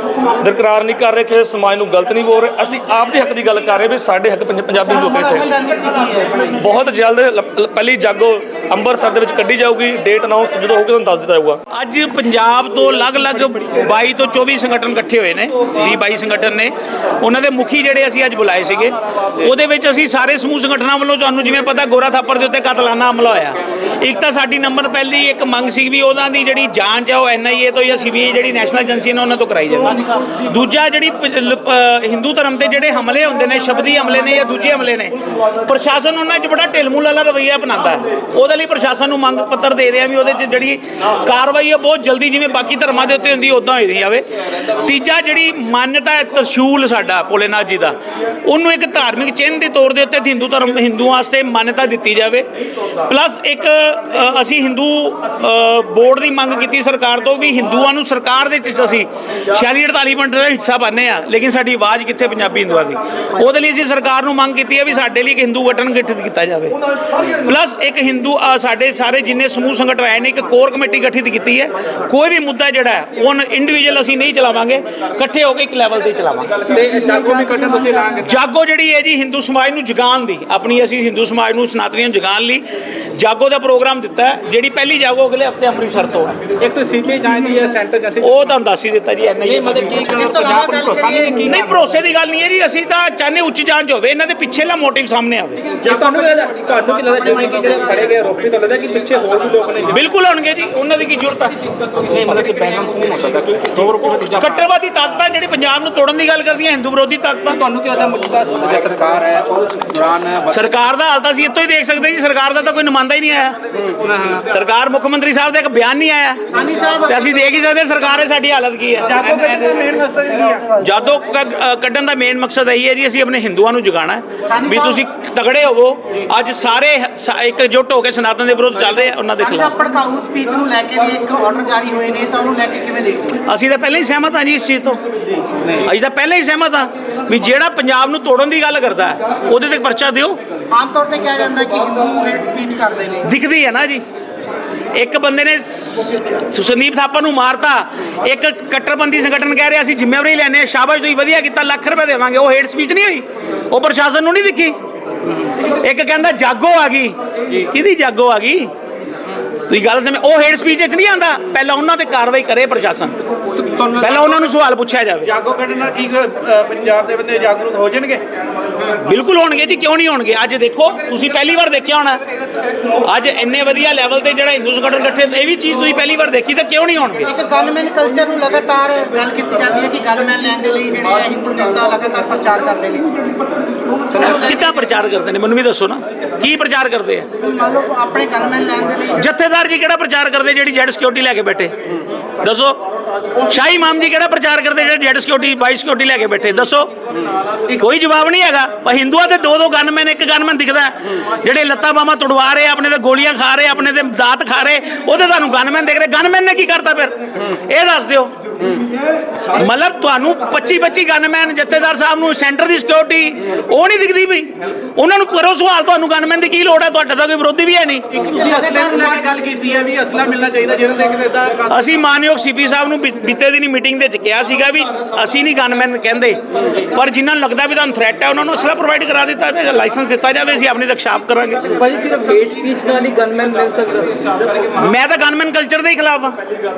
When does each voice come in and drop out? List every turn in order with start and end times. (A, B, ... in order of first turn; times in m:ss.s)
0:00.4-0:05.4 A
0:04.8-0:06.6 B
0:06.6-0:11.6 A
0:11.7-0:52.5 C
0:53.0-1:16.6 C
1:16.7-1:18.3 D
1:18.2-1:26.4 C
1:26.6-1:28.5 D
1:28.2-1:30.6 C
1:29.4-1:31.6 D
1:30.0-1:31.7 B
1:31.4-1:35.8 C
1:35.8-1:40.0 D
1:35.9-1:36.3 B
1:37.1-1:38.1 B
1:39.9-1:47.6 C
1:42.1-1:44.3 D
1:47.6-1:50.6 D
1:50.4-1:53.6 C
1:54.1-1:54.4 D
1:54.3-1:56.5 C
1:56.5-1:57.3 B
1:57.1-1:59.2 C
1:59.0-2:00.7 E
1:59.3-2:00.0 B
2:00.8-2:09.8 C
2:04.5-2:05.0 B
2:09.4-2:13.4 B
2:13.4-2:15.0 C
2:15.6-2:20.4 C
2:20.7-2:23.3 B
2:23.2-2:24.0 C
2:24.9-2:34.8 C
2:35.6-2:38.7 C
2:39.7-2:43.2 C
2:43.6-2:44.1 D
2:43.8-2:45.3 C
2:45.2-2:48.2 E
2:49.0-2:52.2 C
2:53.0-2:57.3 C
2:57.2-3:03.1 B
3:04.1-3:04.6 B
3:04.1-3:07.3 C
3:07.4-3:09.2 B
3:09.2-3:11.9 C
3:12.4-3:12.8 C
3:13.4-3:16.9 C
3:17.7-3:28.3 C
3:29.5-3:38.2 C
3:38.2-3:41.7 E
3:38.2-3:39.4 B
3:41.7-3:51.7 C
3:51.7-3:54.3 D
3:54.7-3:56.4 C